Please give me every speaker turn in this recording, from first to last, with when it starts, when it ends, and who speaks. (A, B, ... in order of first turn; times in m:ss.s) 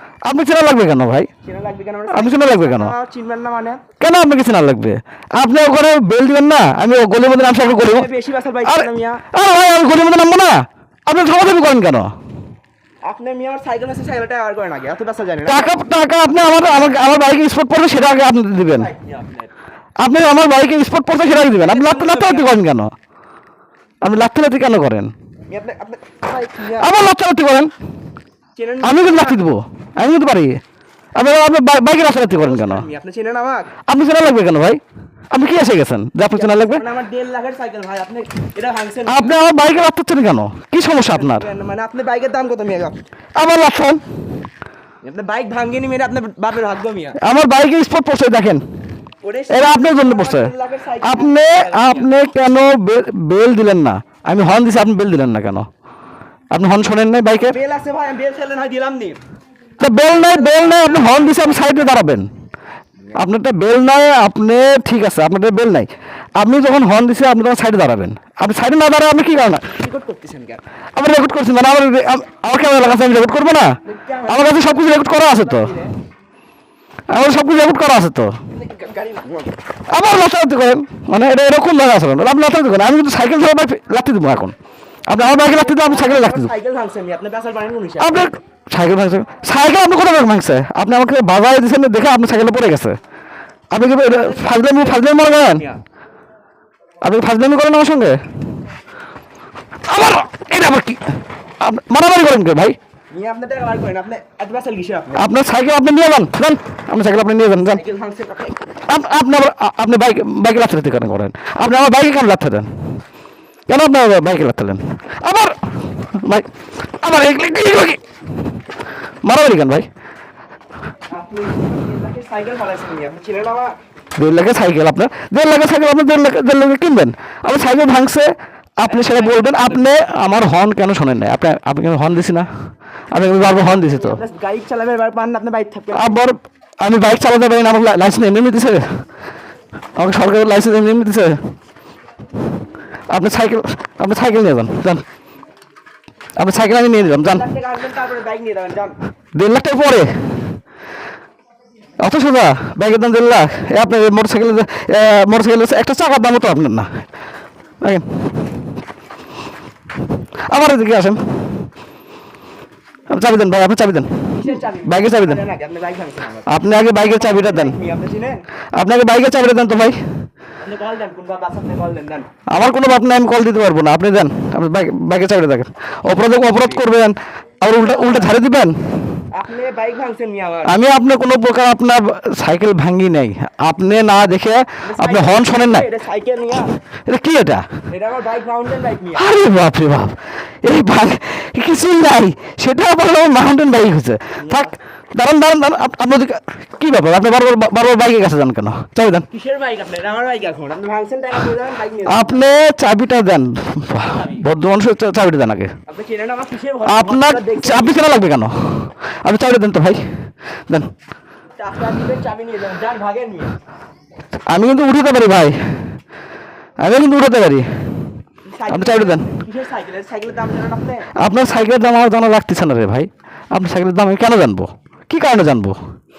0:00.2-0:01.3 A
0:01.4-0:03.8 B
0:02.1-0:02.9 A
0:04.0-0:08.1 A
0:07.6-0:09.2 B
0:08.6-0:12.1 A
0:13.0-0:15.7 B
0:15.4-0:18.9 A
0:16.6-0:16.9 B
0:18.6-0:19.5 B
0:20.0-0:22.9 A
0:21.5-0:22.5 B
0:24.0-0:25.1 A
0:25.5-0:26.9 B
0:26.8-0:27.7 A
0:28.6-0:29.4 B
0:28.8-0:30.6 A
0:31.2-0:32.8 A
0:32.3-0:33.7 B
0:33.9-0:34.8 A
0:35.3-0:36.8 A
0:36.3-0:39.4 B
0:39.1-0:41.4 A
0:41.0-0:43.0 B
0:43.4-0:44.0 A
0:45.0-0:47.2 B
0:47.2-0:48.6 A
0:49.2-0:52.1 B
0:49.5-0:50.5 A
0:51.0-0:55.6 A
0:56.5-0:57.6 A
0:57.4-0:59.2 B
0:59.8-1:02.3 A
0:59.9-1:01.9 B
1:03.2-1:09.7 A
1:09.6-1:10.6 B
1:10.9-1:15.7 A
1:13.8-1:15.9 B
1:17.1-1:18.4 A
1:18.5-1:19.6 B
1:19.9-1:24.5 A
1:25.1-1:26.5 A
1:25.3-1:28.3 B
1:28.0-1:33.0 A
1:33.7-1:35.6 A
1:34.0-1:35.8 B
1:37.0-1:38.2 A
1:39.8-1:42.8 A
1:43.1-1:45.3 B
1:45.2-1:47.8 A
1:47.6-1:48.6 B
1:48.9-1:52.7 A
1:53.7-1:58.0 A
1:59.2-1:59.9 A
2:01.1-2:03.8 B
2:04.2-2:12.5 A
2:08.8-2:09.8 B
2:13.1-2:14.2 A
2:13.4-2:16.2 B
2:15.9-2:18.8 A
2:20.0-2:21.4 A
2:23.1-2:25.0 A
2:26.4-2:27.4 A
2:26.9-2:28.9 B
2:29.3-2:30.1 A
2:32.0-2:36.9 A
2:40.5-2:41.2 A
2:43.1-2:44.3 A
2:44.3-2:48.4 B
2:44.8-2:45.4 A
2:46.5-2:47.8 A
2:48.7-2:50.0 A
2:50.6-2:52.3 B
2:52.5-2:58.7 A
2:57.8-2:58.3 B
2:59.3-3:00.8 B
3:00.6-3:05.9 A
3:04.8-3:06.7 B
3:07.1-3:07.7 A
3:07.9-3:09.2 B
3:09.1-3:19.3 A
3:14.4-3:14.7 B
3:19.3-3:22.4 B
3:22.0-3:25.7 A
3:24.1-3:24.4 B
3:25.9-3:28.0 B
3:26.8-3:30.0 A
3:31.6-3:33.6 B
3:34.5-3:35.6 A
3:36.8-3:37.6 A
3:38.5-3:41.1 B
3:38.7-3:39.3 A
3:41.2-3:45.8 A